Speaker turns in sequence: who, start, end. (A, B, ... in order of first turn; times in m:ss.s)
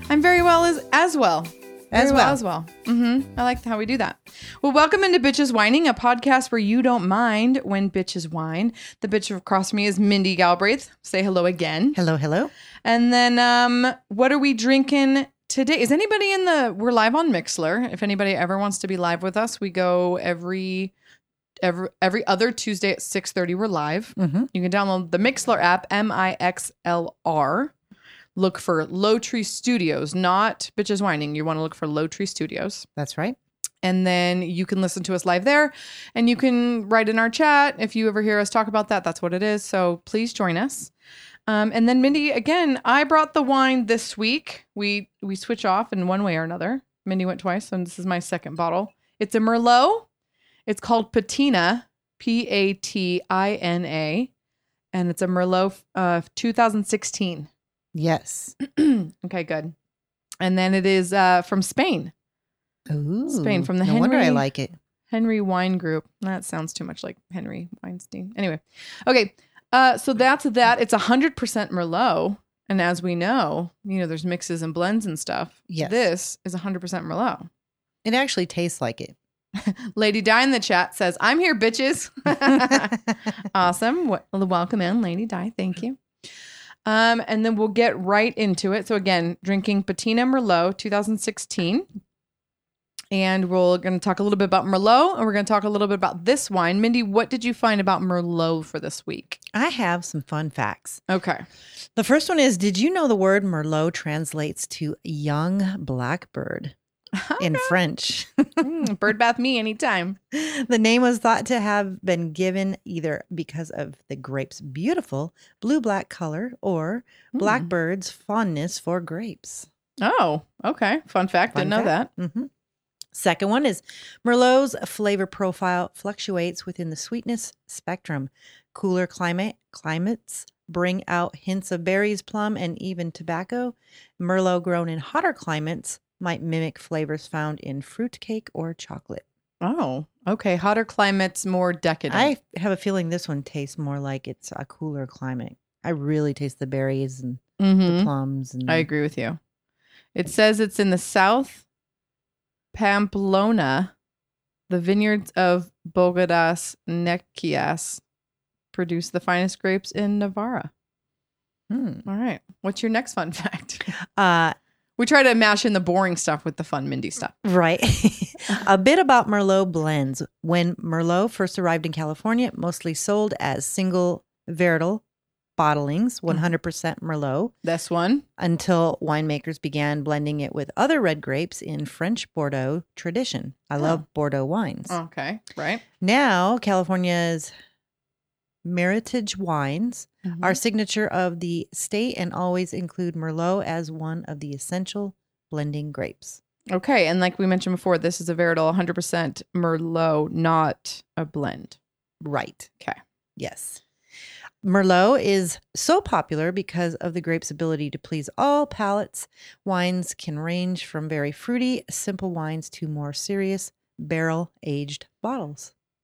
0:00.1-0:12.0 A
0:01.9-0:02.4 B
0:11.9-0:12.5 B
0:12.8-0:20.9 A
0:21.6-0:27.7 A
0:24.2-0:24.5 B
0:28.4-0:32.8 A
0:33.0-0:33.4 B
0:33.8-0:40.9 A
0:41.5-0:50.1 A
0:50.7-0:54.3 A
0:54.9-0:57.5 A
0:57.9-0:58.6 B
0:58.6-0:59.7 A
1:00.4-1:02.1 A
1:02.9-1:04.7 B
1:03.3-1:04.4 A
1:05.1-1:17.5 A
1:15.7-1:16.1 B
1:18.0-1:19.1 B
1:19.6-1:23.0 A
1:22.5-1:22.8 B
1:23.5-1:26.0 A
1:26.8-1:31.9 A
1:33.1-1:39.4 A
1:39.5-1:41.0 B
1:41.1-1:41.4 A
1:42.0-1:46.7 B
1:47.2-1:47.7 A
1:47.4-1:48.6 B
1:48.6-1:50.2 A
1:50.3-1:59.7 B
1:57.3-1:57.7 A
2:00.0-2:02.1 A
2:01.5-2:02.5 B
2:03.1-2:19.2 B
2:19.6-2:22.3 A
2:22.1-2:28.9 B
2:27.6-2:28.1 A
2:28.7-2:29.4 A
2:30.1-2:31.6 A
2:32.7-2:33.9 A
2:34.7-2:38.0 A
2:38.7-2:40.7 A
2:41.7-2:42.0 B
2:42.0-2:43.9 A
2:44.2-2:44.5 B
2:45.0-2:47.3 A
2:47.4-2:55.0 B
2:55.6-2:57.5 B
2:57.6-2:58.2 A
2:58.4-3:05.0 B
3:04.9-3:05.8 A
3:06.0-3:07.5 B
3:08.6-3:16.4 B
3:10.2-3:10.6 A
3:16.7-3:21.8 A
3:22.2-3:22.7 B
3:23.4-3:23.8 B
3:24.6-3:35.7 B